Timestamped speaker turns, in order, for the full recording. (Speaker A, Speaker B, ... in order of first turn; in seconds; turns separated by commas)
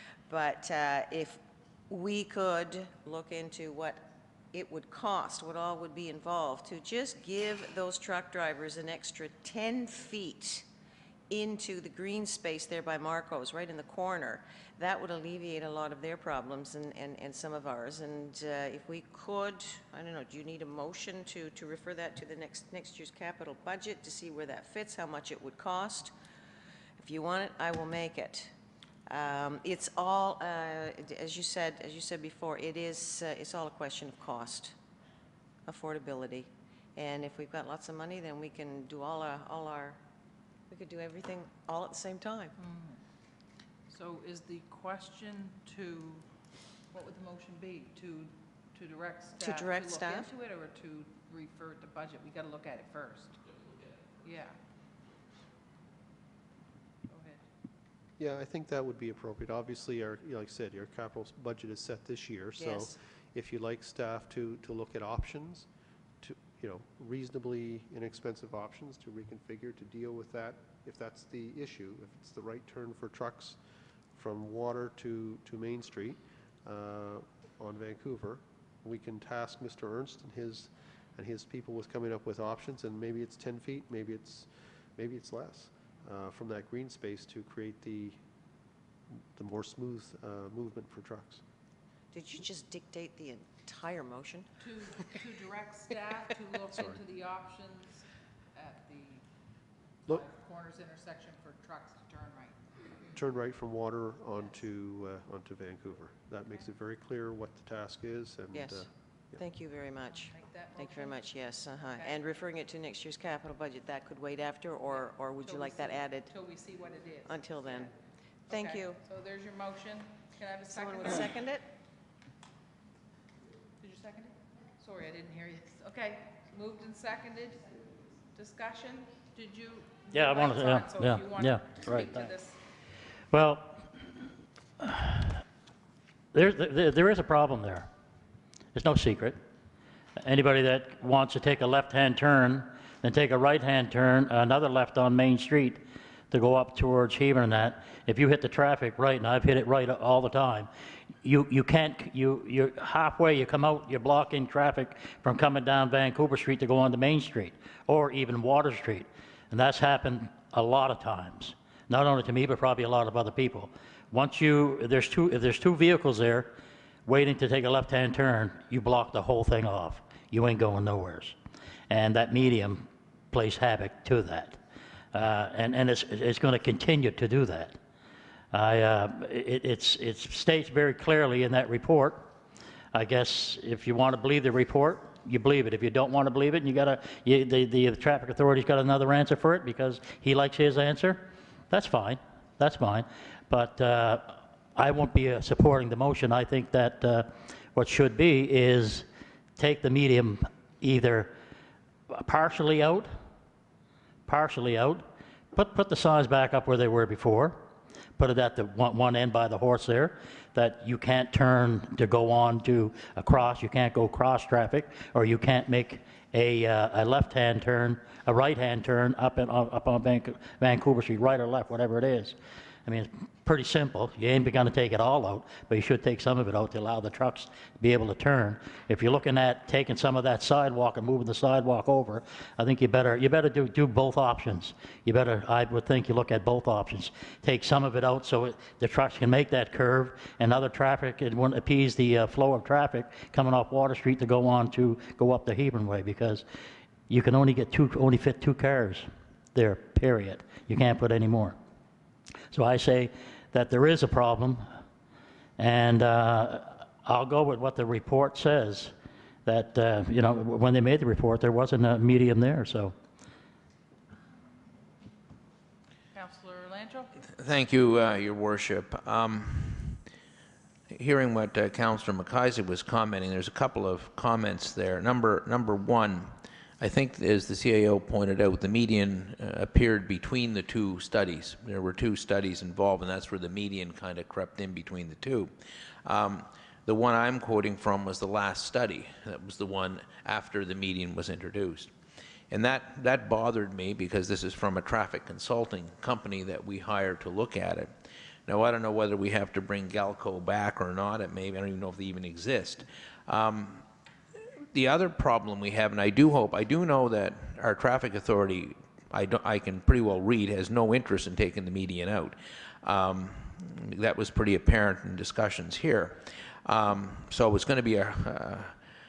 Speaker A: 0.3-10.7, Speaker A: 11.3-26.1, Speaker A: 27.0-28.5, Speaker A: 29.1-34.8, Speaker A: 35.7-40.0, Speaker A: 40.7-42.5, Speaker B: 42.6-43.0, Speaker B: 43.9-46.2, Speaker B: 46.9-53.4, Speaker A: 49.4-50.3, Speaker B: 54.2-54.6, Speaker B: 57.1-57.4, Speaker C: 58.2-65.7, Speaker A: 62.6-62.9, Speaker C: 66.2-73.6, Speaker C: 74.1-88.2, Speaker C: 89.3-91.4, Speaker A: 92.1-94.5, Speaker B: 94.6-99.2, Speaker B: 100.1-102.6, Speaker C: 103.1-109.4, Speaker A: 108.5-116.3, Speaker B: 110.1-111.2, Speaker B: 112.0-112.3, Speaker B: 114.9-117.9, Speaker A: 117.3-117.9, Speaker B: 118.5-121.3, Speaker A: 118.5-119.0, Speaker A: 120.7-121.7, Speaker B: 123.8-127.7, Speaker B: 128.3-132.6, Speaker D: 130.1-132.3, Speaker D: 133.3-134.1, Speaker D: 134.8-135.4, Speaker D: 136.3-137.9, Speaker D: 138.7-139.4, Speaker D: 140.2-150.7, Speaker D: 151.2-166.5, Speaker D: 167.1-171.4, Speaker D: 171.9-174.6, Speaker D: 175.1-177.8, Speaker D: 178.5-182.3, Speaker D: 182.9-201.3, Speaker D: 202.1-203.2, Speaker D: 204.3-246.5, Speaker D: 247.1-251.6, Speaker D: 252.5-254.7, Speaker D: 255.6-258.9, Speaker D: 259.5-262.9, Speaker B: 266.1-267.1, Speaker E: 267.4-270.0, Speaker E: 270.9-285.5, Speaker E: 286.1-291.9, Speaker E: 292.5-297.9, Speaker E: 298.5-303.9, Speaker E: 304.7-318.8